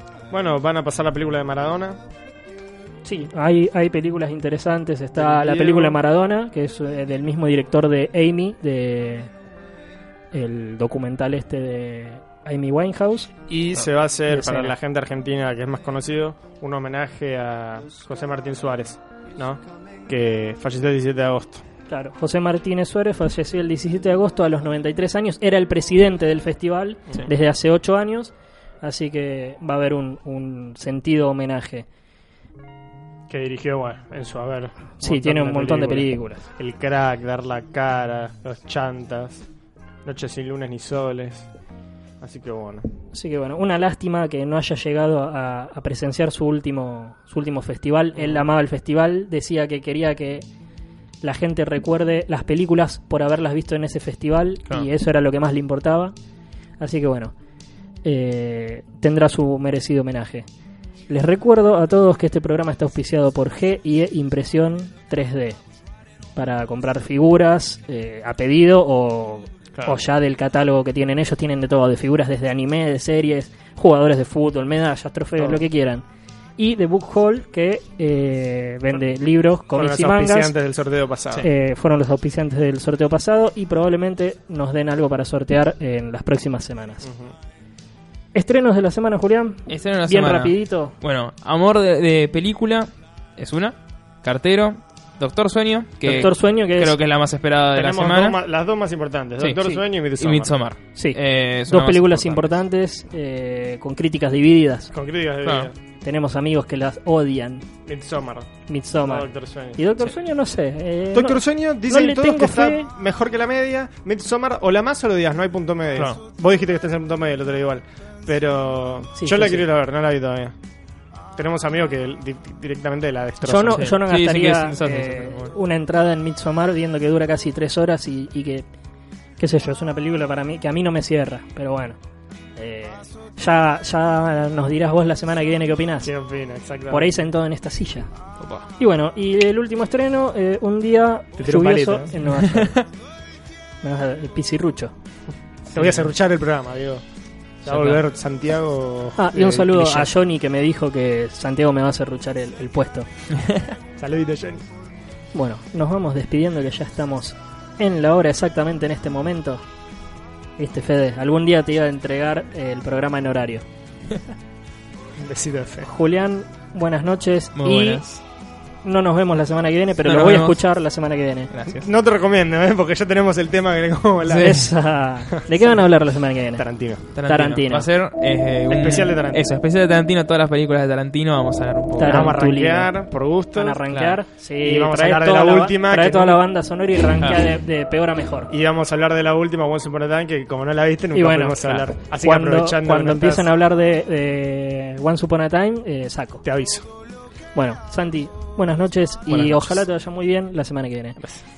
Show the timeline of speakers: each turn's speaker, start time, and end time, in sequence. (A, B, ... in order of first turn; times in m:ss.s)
0:00.3-0:02.0 A
0:03.0-0:09.3 B
0:05.2-0:06.0 A
0:10.3-0:13.3 B
0:13.5-0:21.6 A
0:14.3-0:14.7 B
0:21.9-0:31.9 B
0:33.3-0:39.4 A
0:35.0-0:36.4 B
0:40.0-0:41.5 A
0:42.2-0:42.8 A
0:43.1-0:50.5 B
0:48.2-0:48.5 A
0:51.2-0:56.1 B
0:56.8-0:57.3 B
0:58.0-1:00.5 B
1:01.1-1:05.6 B
1:06.4-1:16.0 B
1:09.7-1:10.0 A
1:15.4-1:15.6 A
1:16.6-1:20.5 B
1:19.8-1:21.5 A
1:21.4-1:27.1 B
1:27.0-1:27.3 A
1:28.3-1:31.0 B
1:29.7-1:38.4 C
1:36.0-1:37.0 B
1:37.7-1:40.6 A
1:39.4-1:42.6 C
1:41.0-1:44.9 B
1:44.9-1:45.8 A
1:45.4-1:45.7 C
1:46.0-1:47.6 B
1:47.8-1:48.5 A
1:48.7-1:52.9 B
1:49.0-1:49.8 A
1:51.1-2:00.6 A
1:59.2-1:59.6 B
2:01.4-2:03.9 A
2:03.4-2:08.7 B
2:03.7-2:05.5 C
2:09.4-2:12.0 B
2:12.6-2:16.1 B
2:16.0-2:17.1 A
2:16.9-2:18.1 B
2:18.4-2:18.7 C
2:18.8-2:22.8 B
2:21.4-2:22.2 A
2:22.2-2:22.8 C
2:23.8-2:24.9 B
2:25.7-2:27.0 A
2:25.8-2:26.0 C
2:27.6-2:30.1 A
2:27.7-2:28.0 C
2:29.2-2:33.1 B
2:34.0-2:34.6 A
2:35.3-2:39.6 B
2:40.6-2:43.6 B
2:45.2-2:45.9 A
2:45.8-2:48.0 B
2:47.6-2:48.2 C
2:48.8-2:51.5 B
2:50.0-2:50.6 C
2:51.5-2:51.9 C
2:51.8-2:54.7 A
2:54.3-2:54.7 C
2:54.3-2:56.6 B
2:55.4-2:55.8 A
2:56.6-2:57.6 A
2:57.1-3:02.3 C
2:57.2-2:57.9 B
2:58.7-2:59.4 A
3:02.0-3:02.9 B
3:02.0-3:03.8 A
3:03.6-3:08.5 B
3:03.9-3:04.2 C
3:04.6-3:06.4 A
3:07.2-3:07.5 C
3:08.5-3:13.5 A
3:11.1-3:16.4 B
3:16.4-3:16.9 A
3:17.6-3:21.2 B
3:19.3-3:19.7 A